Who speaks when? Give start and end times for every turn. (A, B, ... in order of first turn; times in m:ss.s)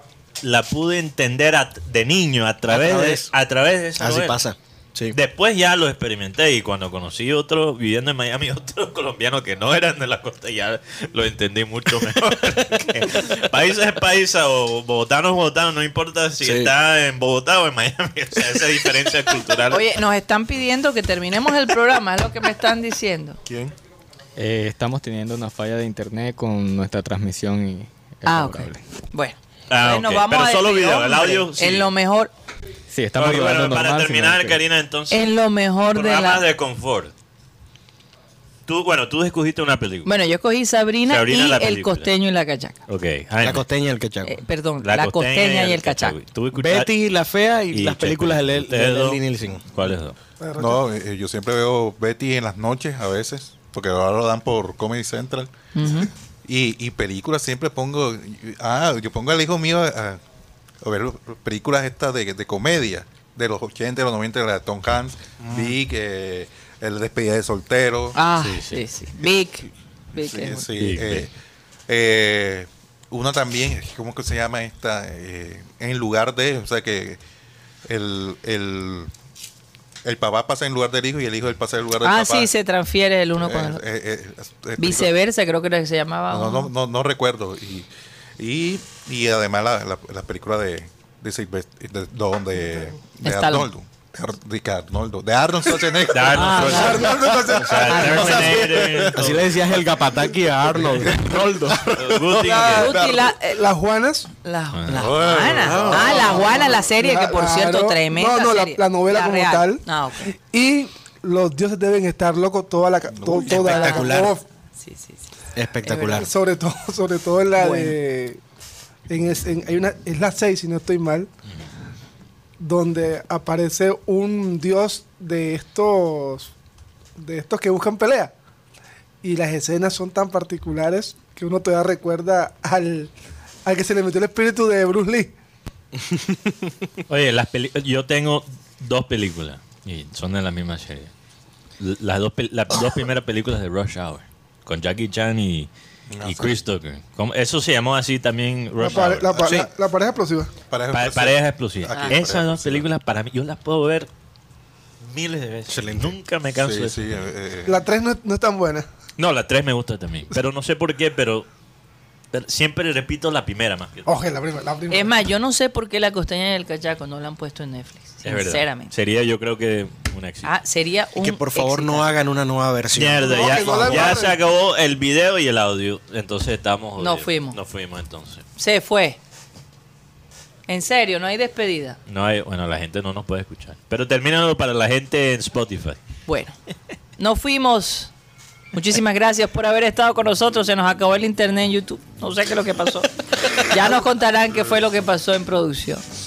0:00.4-0:04.4 A
0:02.7-0:03.3 B
0:04.0-0:05.2 B
0:05.1-0:19.9 A
0:16.4-0:16.7 B
0:19.7-0:23.4 C
0:23.4-0:23.7 D
0:24.4-0:28.8 E
0:28.2-0:32.3 C
0:29.7-0:31.9 A
0:32.9-0:34.6 E
0:33.2-0:35.3 A
0:35.1-0:36.5 C
0:35.9-0:37.1 A
0:38.7-0:40.1 A
0:40.0-0:42.8 C
0:41.1-0:42.1 A
0:42.9-0:43.6 A
0:43.4-0:44.4 B
0:44.2-0:46.2 C
0:44.8-0:46.9 A
0:46.5-0:49.6 B
0:47.7-0:50.2 A
0:50.4-0:50.8 F
0:50.6-1:00.2 D
0:55.7-0:56.1 C
1:00.8-1:08.2 D
1:08.1-1:10.6 C
1:08.3-1:08.8 A
1:10.2-1:11.3 D
1:10.8-1:11.3 A
1:11.9-1:17.2 D
1:17.8-1:19.1 D
1:20.0-1:22.5 D
1:22.0-1:23.8 C
1:23.4-1:25.1 D
1:24.8-1:26.7 C
1:26.3-1:39.2 D
1:33.2-1:33.7 C
1:36.1-1:39.8 A
1:36.3-1:37.1 C
1:36.5-1:38.8 F
1:37.4-1:42.0 B
1:40.9-1:43.3 D
1:41.8-1:43.0 A
1:42.4-1:44.3 F
1:42.6-1:43.6 C
1:44.4-1:50.3 C
1:44.9-1:46.4 B
1:44.9-1:46.7 D
1:46.1-1:54.4 F
1:53.1-1:53.7 D
1:53.4-1:54.4 B
1:53.5-1:55.3 C
1:55.5-1:56.3 B
1:55.8-1:56.3 C
1:56.2-1:58.4 F
1:57.6-1:58.0 C
1:59.1-2:01.3 F
2:02.6-2:06.5 F
2:07.2-2:08.3 F
2:09.2-2:13.1 F
2:13.6-2:15.3 F
2:16.0-2:16.7 B
2:17.1-2:21.1 A
2:21.8-2:25.7 A
2:26.1-2:26.6 D
2:26.2-2:29.5 A
2:28.8-2:30.5 F
2:29.4-2:29.7 D
2:30.7-2:32.9 D
2:30.9-2:34.1 A
2:31.9-2:32.2 C
2:35.0-2:37.3 A
2:35.7-2:36.1 B
2:36.6-2:37.8 D
2:37.6-2:38.8 F
2:39.2-2:41.5 A
2:42.3-2:44.0 A
2:44.0-2:45.1 F
2:44.9-2:48.9 C
2:48.2-2:50.5 A
2:50.4-2:52.1 C
2:51.2-2:54.1 B
2:52.9-2:58.4 A
2:53.2-2:54.4 F
2:57.0-2:57.6 C
2:58.6-2:59.2 C
3:00.7-3:02.0 C
3:02.1-3:06.0 A
3:06.3-3:06.5 C
3:07.2-3:08.1 C
3:08.7-3:16.0 C